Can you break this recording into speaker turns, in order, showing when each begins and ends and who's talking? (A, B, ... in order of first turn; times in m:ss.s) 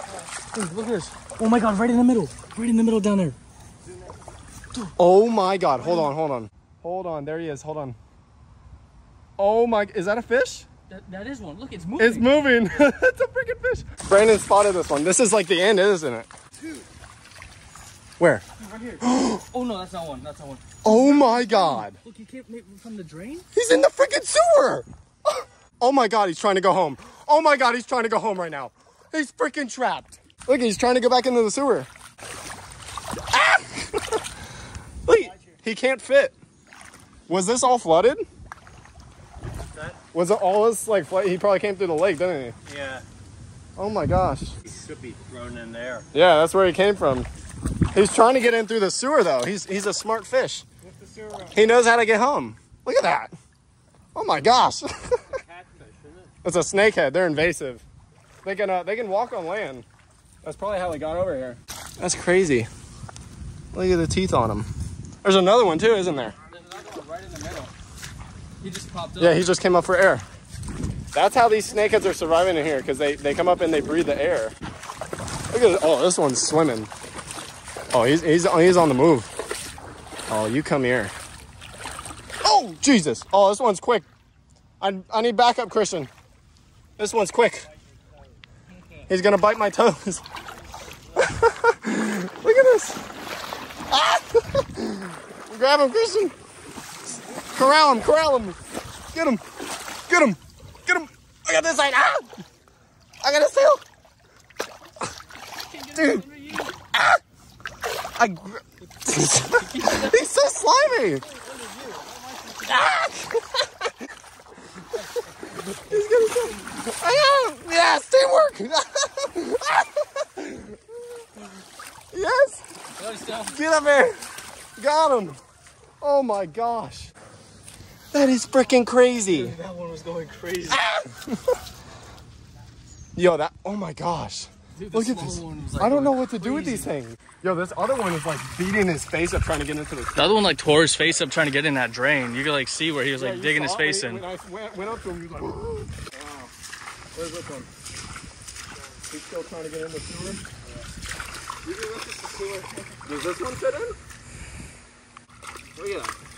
0:00.4-0:03.4 A
0:05.0-0:08.0 B
0:05.8-0:06.1 A
0:09.4-0:10.7 B
0:10.9-0:12.3 A
0:12.0-0:16.3 B
0:18.2-0:18.4 B
0:18.6-0:23.5 A
0:19.0-0:19.4 B
0:20.8-0:22.0 B
0:23.5-0:31.9 B
0:33.3-0:34.2 B
0:35.1-0:36.3 B
0:37.3-0:38.2 B
0:40.1-0:42.6 B
0:42.7-0:43.0 C
0:43.8-0:44.6 B
0:44.7-0:46.0 C
0:46.1-0:47.3 B
0:47.9-0:50.6 B
0:50.9-0:51.6 C
0:51.5-0:53.3 B
0:54.2-0:55.3 B
0:55.4-0:56.3 C
0:56.4-0:57.8 B
0:58.4-0:59.9 B
1:00.4-1:02.7 B
1:03.7-1:04.7 B
1:05.2-1:06.4 B
1:06.5-1:07.7 A
1:08.6-1:09.5 A
1:09.2-1:10.2 B
1:11.1-1:14.6 B
1:15.5-1:16.9 B
1:17.9-1:19.3 B
1:20.3-1:21.1 B
1:22.4-1:24.1 B
1:24.8-1:26.1 B
1:27.0-1:27.7 B
1:29.1-1:30.2 B
1:31.2-1:33.0 B
1:33.9-1:36.3 B
1:37.4-1:38.6 B
1:39.1-1:39.4 B
1:40.1-1:42.3 B
1:43.2-1:43.8 B
1:45.7-1:46.7 A
1:46.0-1:46.2 B
1:46.9-1:47.2 B
1:48.2-1:51.2 B
1:49.4-1:50.2 A
1:51.4-1:53.0 A
1:52.7-1:53.6 B
1:55.5-2:01.0 B
2:02.1-2:02.6 B
2:03.0-2:03.6 A
2:03.4-2:04.1 B
2:04.8-2:05.4 B
2:06.0-2:07.1 B
2:08.1-2:09.6 B
2:09.3-2:10.8 A
2:10.7-2:11.4 B
2:13.2-2:20.5 B
2:14.8-2:16.9 A
2:20.2-2:24.2 A
2:23.2-2:26.5 B
2:27.1-2:27.7 B
2:29.0-2:30.4 B
2:31.6-2:34.0 B
2:35.8-2:36.1 B